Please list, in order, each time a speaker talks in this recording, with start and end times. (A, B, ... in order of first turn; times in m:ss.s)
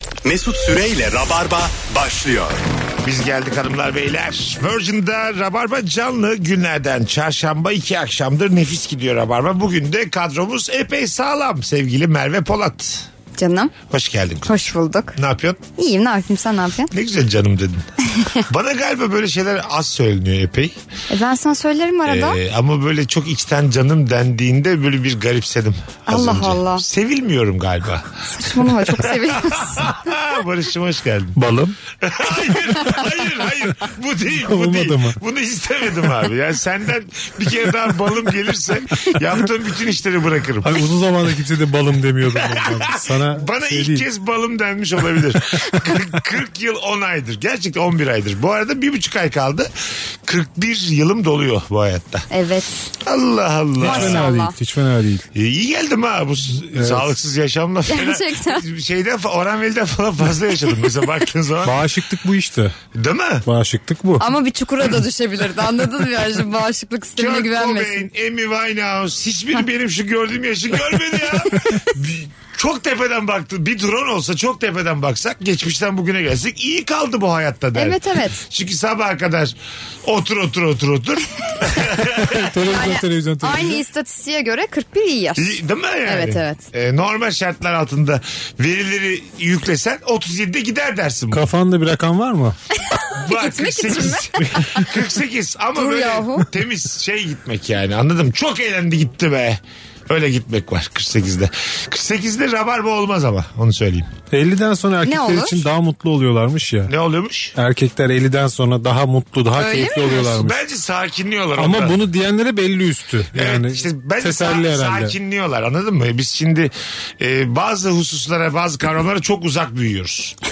0:00.2-0:02.6 A
0:03.0-0:13.1 B
0:13.4-0:13.7 C
0:13.9-0:15.6 B
0:14.4-0:15.2 C
0:15.8-0:16.9 C
0:16.9-0:17.8 B
0:18.5-0:20.7 B
0:21.1-0:22.4 C
0:22.1-0:31.4 B
0:26.1-0:26.9 C
0:28.3-0:30.0 C
0:31.4-0:31.8 D
0:32.0-0:40.8 B
0:34.4-0:35.2 D
0:40.6-0:44.0 D
0:42.3-0:49.7 B
0:50.2-0:52.3 B
0:52.3-0:52.9 C
0:53.0-0:54.2 B
0:53.8-0:55.2 D
0:53.8-0:54.6 C
0:55.4-1:01.8 B
0:56.8-0:57.1 D
0:57.9-0:58.6 C
1:01.6-1:02.8 D
1:02.9-1:03.4 B
1:03.4-1:04.3 D
1:04.2-1:08.1 C
1:07.2-1:22.4 B
1:17.8-1:18.4 C
1:22.1-1:23.8 D
1:22.7-1:26.6 C
1:25.4-1:31.4 B
1:31.3-1:32.6 D
1:32.8-1:34.8 C
1:33.2-1:44.1 B
1:35.8-1:36.5 C
1:44.3-1:46.9 D
1:45.0-1:45.6 C
1:46.9-1:47.6 B
1:47.6-1:50.6 D
1:49.6-1:50.3 C
1:50.1-1:52.0 B
1:51.6-1:55.1 D
1:53.3-2:00.4 B